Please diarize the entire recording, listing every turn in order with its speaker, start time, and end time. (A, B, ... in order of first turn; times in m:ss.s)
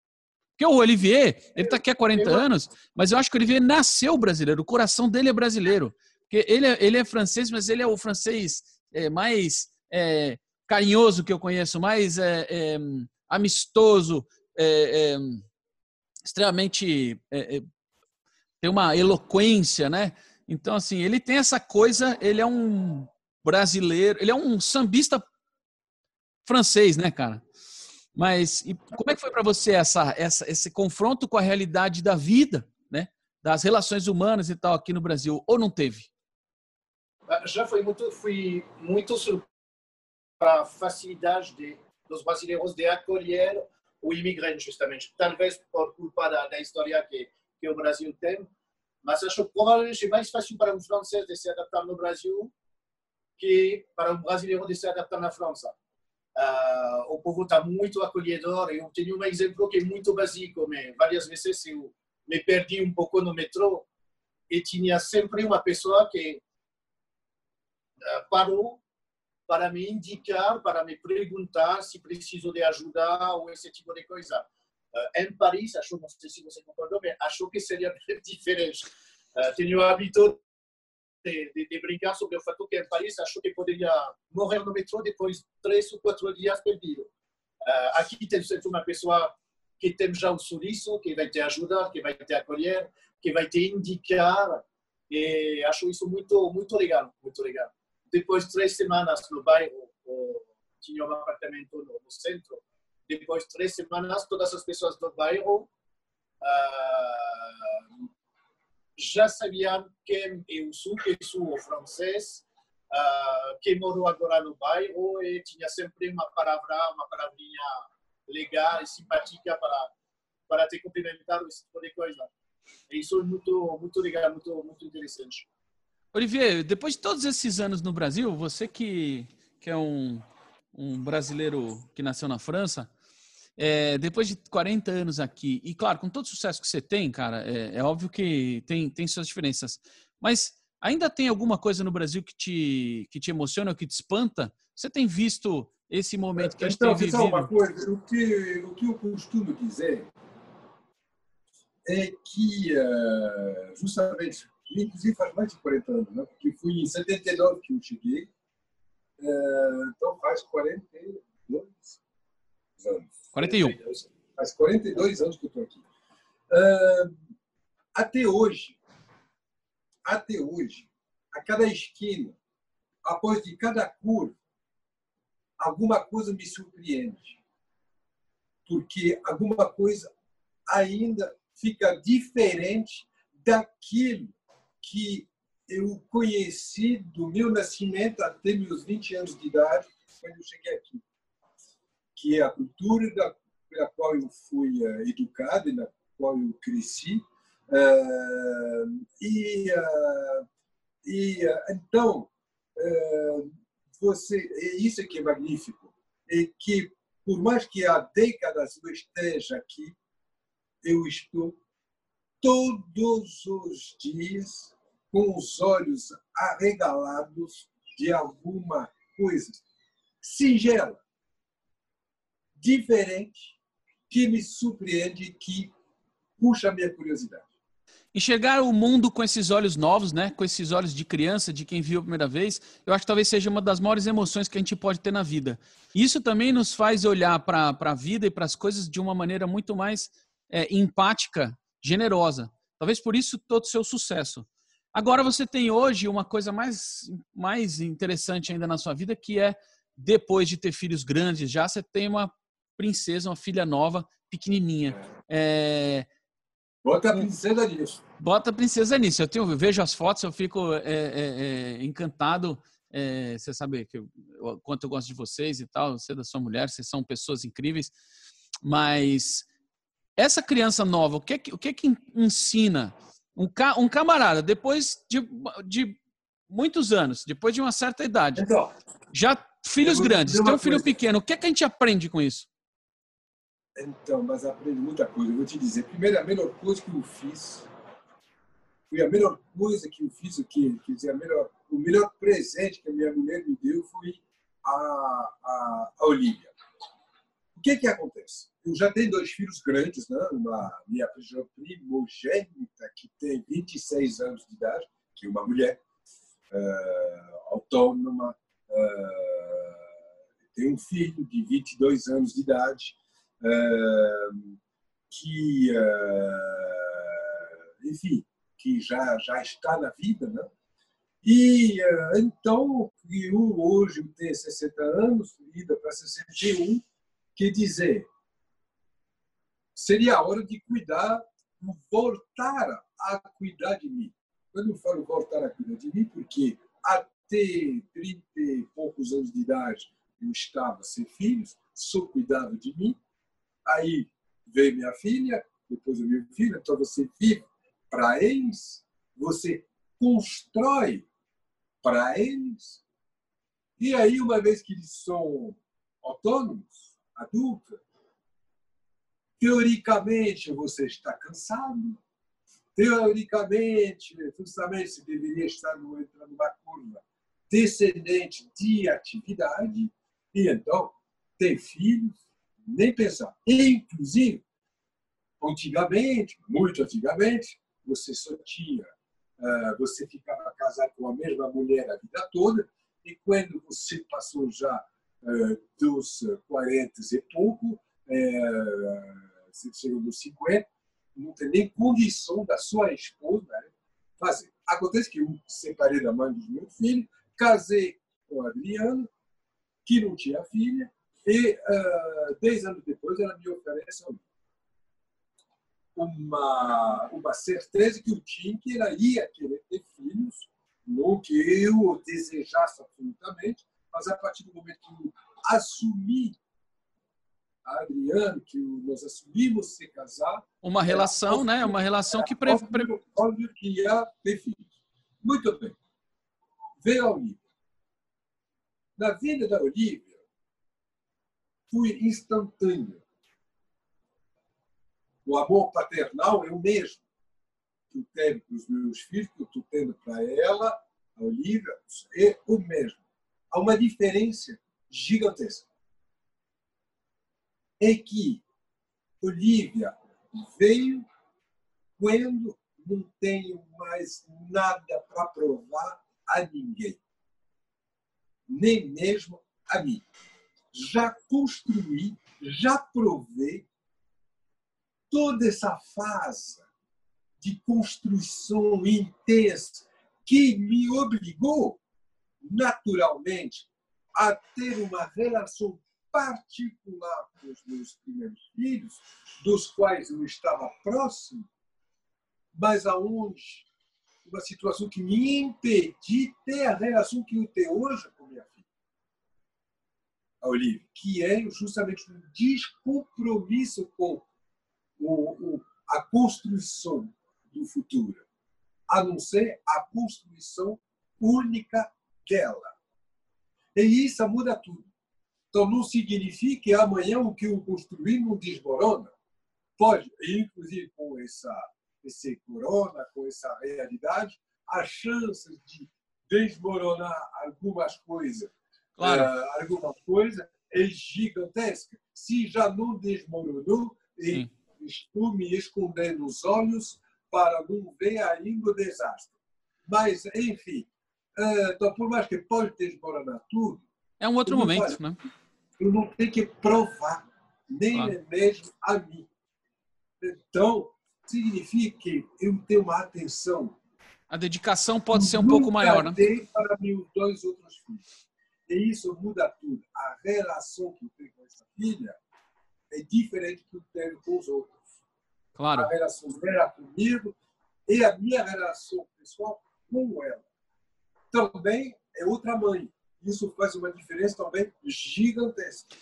0:00.6-0:15.4 A
0:01.6-0:02.4 B
0:16.2-0:17.7 A
0:18.6-0:25.2 A
0:26.4-0:27.4 A
0:28.1-0:36.1 A
0:37.3-0:39.5 B
0:40.4-0:48.5 B
0:49.0-0:52.5 B
0:53.4-0:55.7 B
0:56.4-1:03.9 B
1:04.5-1:06.4 B
1:08.0-1:08.8 B
1:09.5-1:20.4 B
1:21.2-1:27.1 B
1:27.6-1:45.7 B
1:46.4-1:47.8 B
1:49.0-1:59.9 B
2:00.5-2:02.3 B
2:02.9-2:05.5 B
2:06.1-2:12.9 A
2:13.6-2:27.5 A
2:26.4-2:30.1 C
2:31.8-2:38.3 C
2:39.2-2:42.0 C
2:42.8-2:45.8 C
2:43.3-2:43.8 A
2:46.5-2:47.2 C
2:48.0-2:48.8 C
2:50.1-2:52.4 C
2:53.0-2:54.4 C
2:55.6-2:57.4 C
2:58.7-3:00.1 C
3:00.7-3:11.0 C
3:12.2-3:20.4 C
3:21.0-3:30.0 C
3:30.8-3:31.6 C
3:32.4-3:39.6 C
3:40.2-3:41.0 C
3:42.6-3:43.6 C
3:44.1-3:45.7 C
3:46.4-3:47.5 C
3:48.1-4:16.1 A
4:16.8-4:18.0 C
4:18.2-4:27.9 A
4:28.6-4:29.5 A
4:30.2-4:38.5 A
4:38.4-4:38.7 C
4:39.1-4:42.5 A
4:39.8-4:40.9 C
4:43.8-4:47.7 C
4:48.9-4:56.5 C
4:57.6-5:05.8 C
5:06.5-5:09.8 C
5:10.5-5:14.5 C
5:15.1-5:20.5 C
5:21.2-5:26.8 C
5:27.4-5:28.1 C
5:29.8-5:43.0 C
5:43.7-5:51.1 C
5:51.8-5:52.8 C
5:53.8-5:57.8 C
5:59.4-6:02.0 C
6:02.8-6:14.4 C
6:15.4-6:39.1 C
6:39.8-6:44.2 C
6:46.0-6:56.4 C
6:57.6-7:04.7 C
7:00.6-7:02.9 A
7:05.2-7:05.8 C
7:06.8-7:07.4 C
7:09.0-7:10.2 C
7:11.7-7:13.0 C
7:15.2-7:17.0 C
7:17.9-7:23.0 C
7:23.5-7:25.6 C
7:27.8-7:28.4 C
7:29.2-7:31.0 C
7:32.0-7:37.0 C
7:38.5-7:40.0 C
7:40.7-7:43.7 C
7:45.1-7:46.6 C
7:47.4-7:51.8 C
7:52.4-8:01.5 C
8:02.6-8:03.7 C
8:04.2-8:08.6 C
8:10.4-8:14.2 C
8:15.0-8:18.2 C
8:18.9-8:22.8 C
8:23.8-8:24.9 C
8:25.5-8:29.1 C
8:29.8-8:49.3 C
8:39.0-8:39.3 A
8:49.9-8:53.8 C
8:54.2-8:55.2 A
8:54.5-8:55.0 C
8:55.8-8:59.3 C
9:00.2-9:03.8 C
9:04.3-9:06.2 A
9:05.1-9:08.0 C
9:08.7-9:12.2 C
9:12.9-9:14.8 C
9:15.6-9:15.9 A
9:15.7-9:17.4 C
9:17.9-9:20.4 C
9:21.3-9:25.9 C